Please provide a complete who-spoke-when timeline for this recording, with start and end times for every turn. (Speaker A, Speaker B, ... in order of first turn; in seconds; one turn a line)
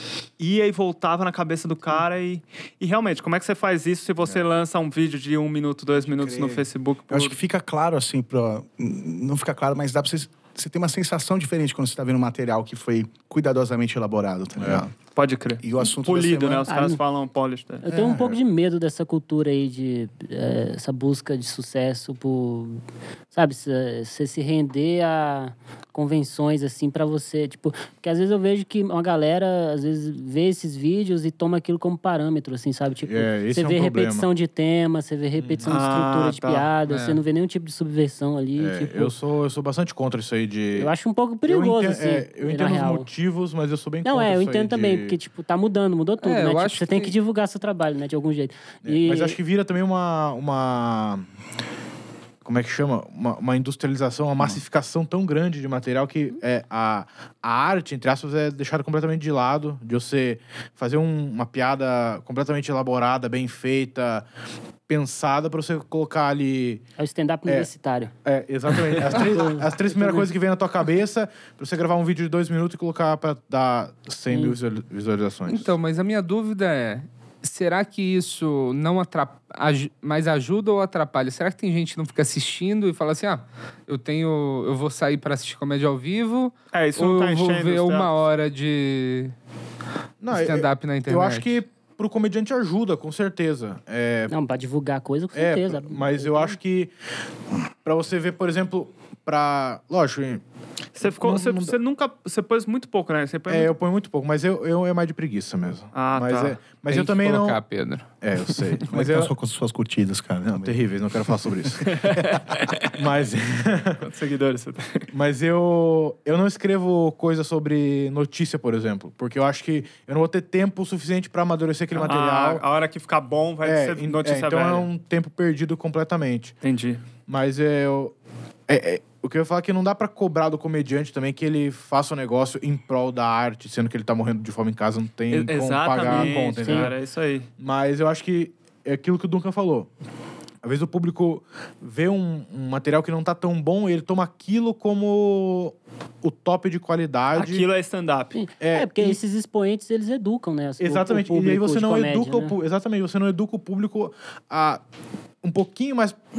Speaker A: 0.4-7.4
Speaker B: 6.0-14.9
Speaker C: 14.6-14.9
Speaker A: 15.1-17.9
Speaker B: 15.6-16.7
Speaker D: 16.7-17.0
Speaker D: 17.8-22.8
Speaker B: 17.9-18.4
Speaker D: 23.3-39.1
Speaker C: 33.0-34.3
Speaker C: 35.4-35.8
Speaker A: 35.7-36.7
Speaker E: 36.9-37.2
Speaker C: 38.6-40.9
Speaker D: 40.7-43.1
Speaker C: 41.5-45.2
Speaker D: 44.0-49.4
Speaker E: 46.2-47.1
Speaker C: 48.8-51.2
Speaker C: 52.4-64.2
Speaker C: 64.9-66.8
Speaker D: 67.0-68.1
Speaker C: 68.2-75.7
Speaker D: 69.0-70.3
Speaker D: 74.3-74.6
Speaker E: 75.5-89.3
Speaker A: 86.7-88.1
Speaker C: 90.2-94.3
Speaker E: 90.3-91.6
Speaker D: 94.3-96.6
Speaker C: 95.3-96.9
Speaker C: 97.8-100.4
Speaker A: 101.0-103.7
Speaker C: 101.0-101.8
Speaker C: 103.5-107.6
Speaker A: 105.9-106.6
Speaker E: 106.9-108.1
Speaker C: 108.2-109.3
Speaker B: 108.9-110.8
Speaker C: 110.5-112.0
Speaker A: 111.9-112.9
Speaker C: 113.0-114.0
Speaker A: 114.0-115.1
Speaker C: 115.1-122.6
Speaker A: 121.9-124.9
Speaker C: 123.6-126.6
Speaker A: 126.6-127.0
Speaker C: 127.3-128.1
Speaker C: 128.7-137.0
Speaker A: 135.3-137.5
Speaker D: 136.0-136.9
Speaker C: 137.6-139.9
Speaker C: 140.6-147.7
Speaker A: 147.3-148.4
Speaker D: 148.3-152.6
Speaker C: 148.6-149.2
Speaker C: 150.8-154.8
Speaker C: 155.4-156.2